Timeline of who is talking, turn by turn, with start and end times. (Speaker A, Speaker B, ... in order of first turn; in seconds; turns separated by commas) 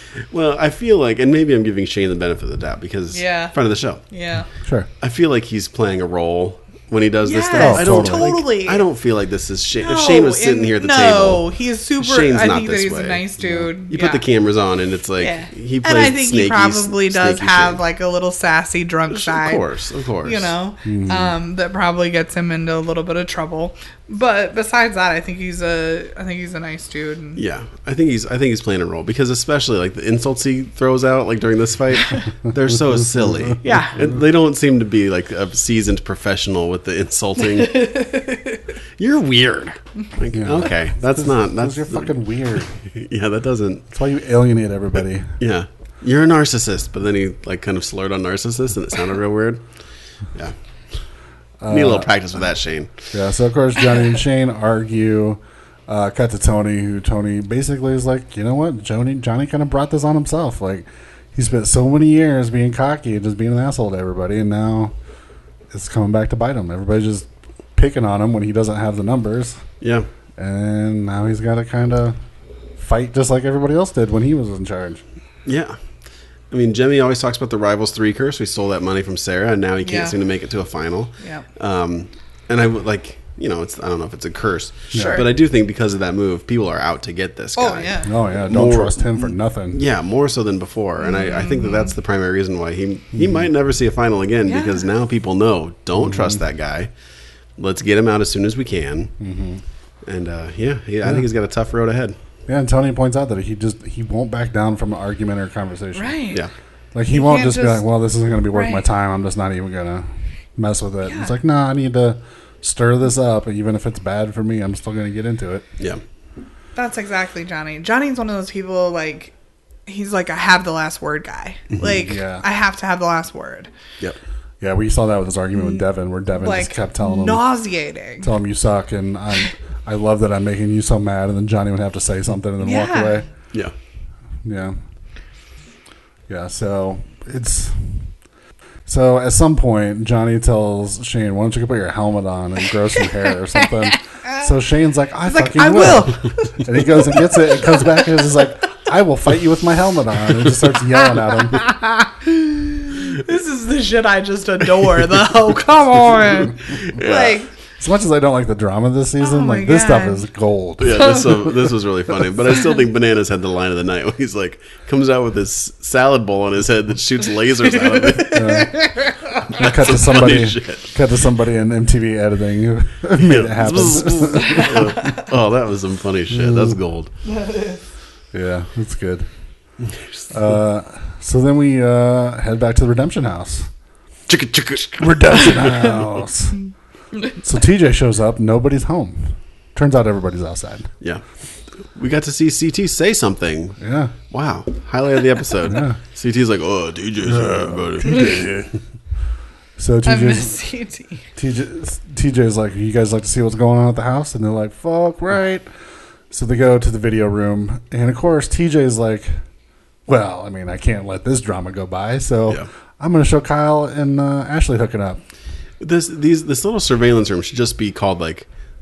Speaker A: 0.3-4.0, Speaker B: 3.1-3.5, Speaker B: 4.1-4.5, Speaker C: 4.6-4.9, Speaker A: 5.0-13.2, Speaker B: 7.2-8.8, Speaker C: 7.6-8.3, Speaker B: 9.8-14.2, Speaker C: 13.4-13.7, Speaker A: 13.9-17.8, Speaker B: 15.2-19.6, Speaker A: 19.1-20.5, Speaker B: 20.2-27.4, Speaker C: 20.9-21.4, Speaker A: 27.4-38.0, Speaker C: 33.1-34.1, Speaker B: 33.6-34.0, Speaker B: 37.6-38.6, Speaker A: 39.0-43.9, Speaker C: 40.3-42.7, Speaker C: 43.9-45.4, Speaker A: 45.4-49.6, Speaker C: 51.6-52.1, Speaker A: 51.7-52.9, Speaker C: 53.1-64.9, Speaker C: 65.7-69.6, Speaker A: 69.8-70.1, Speaker C: 70.4-72.2, Speaker C: 72.8-75.0, Speaker A: 75.5-75.8, Speaker A: 76.5-96.9, Speaker B: 79.8-80.2, Speaker B: 81.2-81.5, Speaker C: 84.9-85.2, Speaker B: 84.9-85.3, Speaker B: 87.6-88.1, Speaker C: 88.0-89.8, Speaker B: 91.0-91.9, Speaker C: 93.2-93.5, Speaker B: 94.5-94.8, Speaker C: 96.0-96.4, Speaker A: 97.6-99.1, Speaker C: 99.2-99.6, Speaker A: 100.0-102.2, Speaker C: 102.5-106.2, Speaker B: 106.0-106.4, Speaker C: 106.9-115.7, Speaker B: 107.1-107.8, Speaker B: 108.5-108.8, Speaker B: 111.0-111.3, Speaker B: 116.8-119.3, Speaker B: 119.9-123.7, Speaker C: 121.8-122.5, Speaker C: 124.6-127.5, Speaker B: 126.4-128.3, Speaker C: 128.2-133.2, Speaker B: 132.6-133.2, Speaker C: 134.4-134.8, Speaker C: 136.3-138.1, Speaker C: 138.9-151.6, Speaker B: 143.9-144.4, Speaker B: 145.3-147.8, Speaker B: 152.2-157.5, Speaker A: 156.7-157.4, Speaker C: 157.8-161.6, Speaker B: 159.2-160.2, Speaker A: 160.8-168.6, Speaker B: 160.9-161.2, Speaker B: 167.7-169.6, Speaker C: 168.3-168.9, Speaker A: 169.5-170.9, Speaker C: 169.5-175.0, Speaker A: 173.2-177.1, Speaker B: 174.4-175.2, Speaker C: 176.3-176.8, Speaker B: 177.3-177.8, Speaker C: 178.3-179.3, Speaker C: 180.3-183.7, Speaker A: 184.3-186.0, Speaker C: 185.0-186.6, Speaker C: 187.4-190.9, Speaker A: 191.8-193.8, Speaker C: 193.8-194.1, Speaker A: 194.3-198.7, Speaker C: 195.7-196.0, Speaker C: 197.2-198.5, Speaker B: 198.1-198.4, Speaker C: 199.8-200.6, Speaker B: 200.1-201.2, Speaker C: 201.4-205.7, Speaker C: 206.3-209.3, Speaker C: 210.1-215.2, Speaker A: 215.8-218.5